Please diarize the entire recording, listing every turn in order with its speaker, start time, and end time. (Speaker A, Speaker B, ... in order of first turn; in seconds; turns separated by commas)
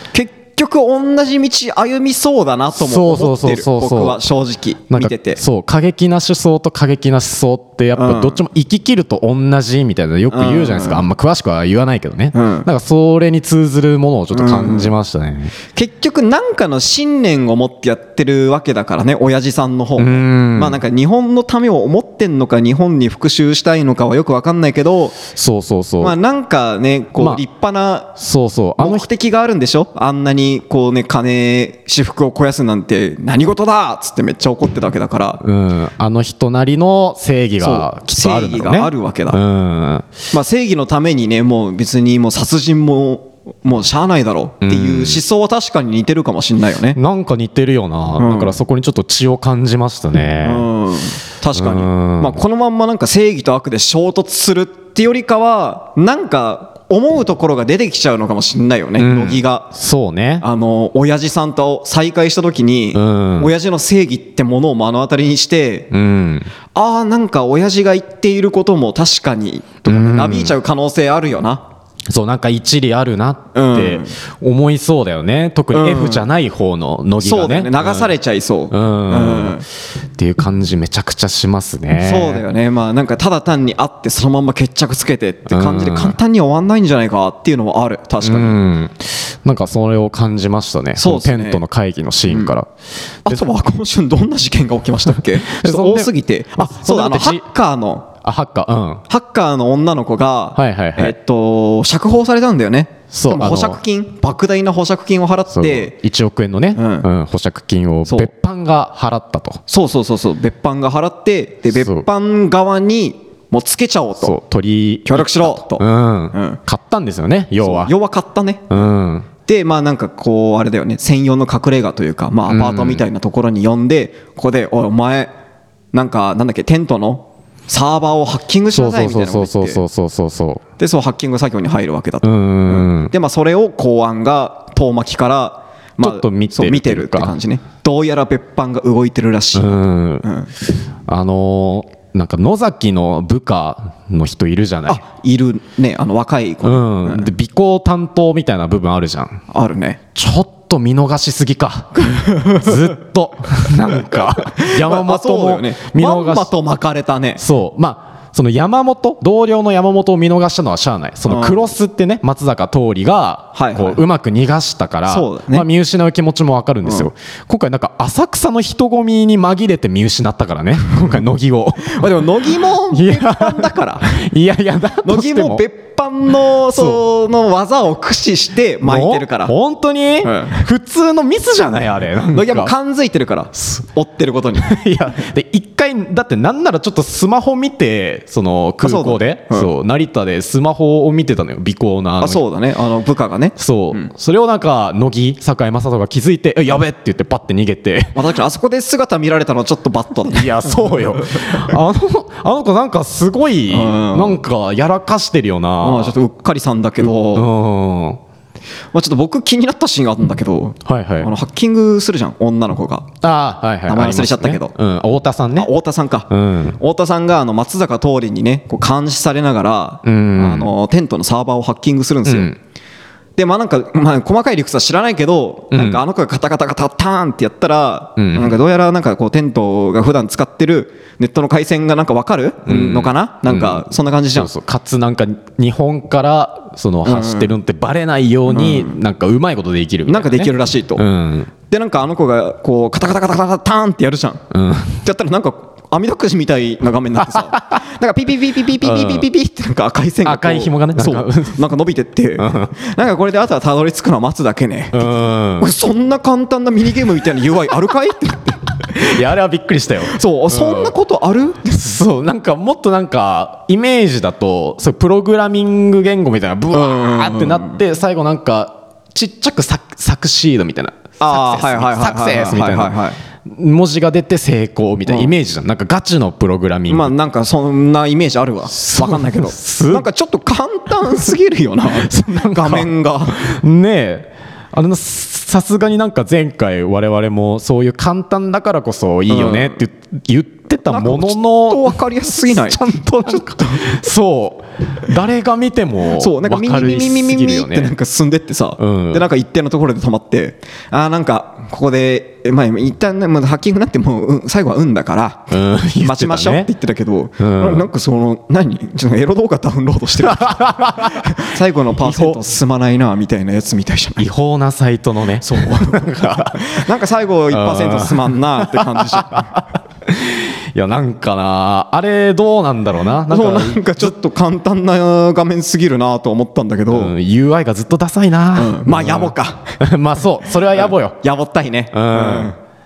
Speaker A: 0.1-5.4, Speaker B: 2.7-4.2, Speaker B: 4.9-15.5, Speaker A: 8.0-8.4, Speaker A: 10.3-11.1, Speaker A: 12.3-12.7, Speaker A: 14.3-14.9, Speaker A: 15.7-25.2, Speaker B: 20.0-20.8, Speaker B: 25.3-26.2, Speaker A: 26.0-28.1, Speaker B: 27.2-27.4, Speaker B: 28.2-29.1, Speaker A: 28.8-35.4, Speaker B: 35.4-40.1, Speaker A: 37.6-39.4, Speaker A: 40.3-47.0, Speaker B: 44.6-45.2, Speaker B: 46.9-50.7, Speaker A: 48.2-48.5, Speaker A: 50.4-59.7, Speaker B: 51.5-52.4, Speaker B: 59.0-60.4, Speaker A: 60.4-65.9, Speaker B: 62.9-63.5, Speaker B: 65.9-66.5, Speaker A: 66.7-71.6, Speaker B: 69.9-70.5, Speaker B: 72.1-78.1, Speaker A: 73.5-74.2, Speaker A: 75.7-76.3, Speaker A: 77.2-79.7, Speaker B: 78.7-79.6, Speaker B: 80.1-82.4, Speaker A: 82.0-88.6, Speaker B: 85.5-86.2, Speaker B: 88.2-92.7, Speaker A: 91.0-91.6, Speaker A: 92.3-92.5, Speaker A: 93.2-98.1, Speaker B: 95.1-97.4, Speaker B: 98.2-99.0, Speaker A: 99.1-105.9, Speaker B: 100.5-101.1, Speaker B: 103.1-103.8, Speaker B: 105.5-109.6, Speaker A: 106.7-107.1, Speaker A: 109.7-114.4, Speaker B: 111.7-112.0, Speaker B: 114.2-117.9, Speaker A: 115.1-116.6, Speaker A: 117.6-118.8, Speaker B: 118.7-119.3, Speaker A: 119.4-125.3, Speaker B: 122.5-123.0, Speaker A: 125.9-129.8, Speaker B: 128.7-130.6, Speaker A: 130.8-140.5, Speaker B: 132.2-133.1, Speaker B: 136.0-137.3, Speaker B: 139.5-140.3, Speaker B: 141.1-145.0, Speaker A: 144.9-147.3, Speaker B: 146.6-149.4, Speaker A: 149.5-150.0, Speaker B: 150.1-156.5, Speaker A: 152.0-152.8, Speaker A: 154.1-157.4, Speaker B: 157.4-172.0, Speaker A: 161.3-161.7, Speaker A: 163.5-164.0, Speaker A: 165.1-165.7, Speaker A: 166.8-167.1, Speaker A: 171.8-174.2, Speaker B: 172.9-175.6, Speaker A: 175.0-179.5, Speaker B: 176.7-177.0, Speaker B: 178.8-182.7, Speaker A: 180.2-180.7, Speaker A: 182.3-184.7, Speaker B: 184.6-192.4, Speaker A: 188.8-189.7, Speaker A: 192.2-194.1, Speaker B: 193.6-198.2, Speaker A: 198.1-201.8, Speaker B: 200.3-206.2, Speaker A: 203.7-204.4, Speaker A: 205.8-207.5, Speaker B: 207.0-208.2, Speaker A: 208.9-213.1, Speaker B: 210.8-211.3, Speaker B: 213.2-215.7, Speaker A: 213.9-214.7, Speaker A: 215.6-222.5, Speaker B: 216.3-216.8, Speaker B: 220.0-220.7, Speaker B: 222.2-222.6, Speaker A: 223.4-234.5, Speaker B: 225.7-226.0, Speaker B: 228.2-228.6, Speaker B: 232.7-241.5, Speaker A: 237.0-237.5, Speaker A: 238.5-239.0, Speaker A: 240.1-241.0, Speaker A: 241.7-244.4, Speaker B: 244.5-245.0, Speaker A: 245.0-259.2, Speaker B: 247.3-247.8, Speaker B: 248.8-249.2, Speaker B: 250.2-251.6, Speaker B: 252.4-252.7, Speaker B: 254.9-255.7, Speaker B: 258.9-260.9, Speaker A: 260.1-261.9, Speaker B: 261.7-277.1, Speaker A: 266.7-267.8, Speaker A: 271.2-273.2, Speaker A: 275.1-275.3, Speaker A: 276.9-283.6, Speaker B: 278.7-280.1, Speaker B: 282.0-297.9, Speaker A: 289.3-289.8, Speaker A: 290.9-294.0, Speaker A: 296.1-314.3, Speaker B: 298.8-299.2, Speaker B: 305.5-306.7, Speaker B: 307.4-307.9, Speaker B: 310.2-311.3, Speaker B: 312.0-312.4, Speaker B: 314.2-316.8, Speaker A: 315.4-319.6, Speaker B: 317.5-324.1, Speaker A: 323.3-327.1, Speaker B: 326.9-331.2, Speaker A: 328.5-329.8, Speaker A: 330.7-332.6, Speaker B: 331.9-332.5